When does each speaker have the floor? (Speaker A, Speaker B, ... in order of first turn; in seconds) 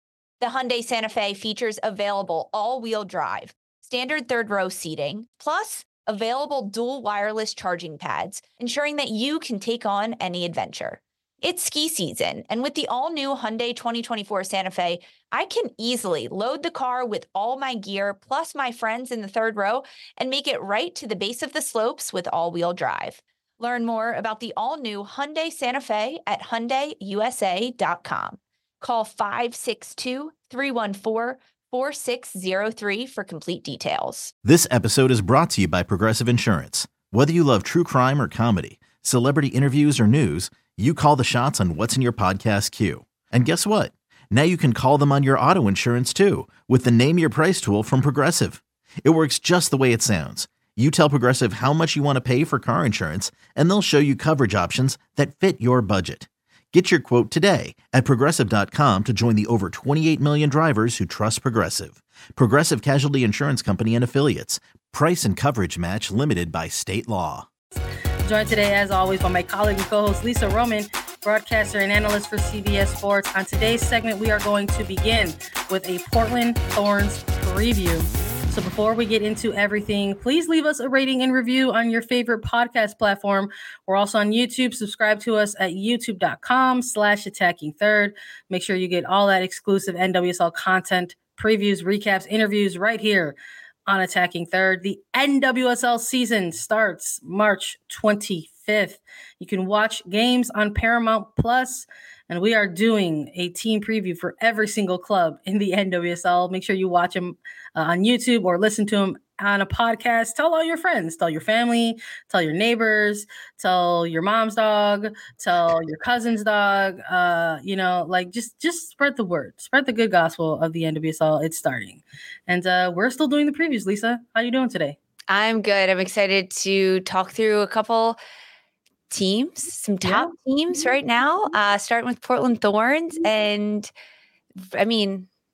Speaker A: 0.4-34.3, 125.3-128.2, 129.1-133.9, 134.6-135.3
Speaker B: 34.5-67.5
Speaker C: 68.2-125.0, 130.0-130.3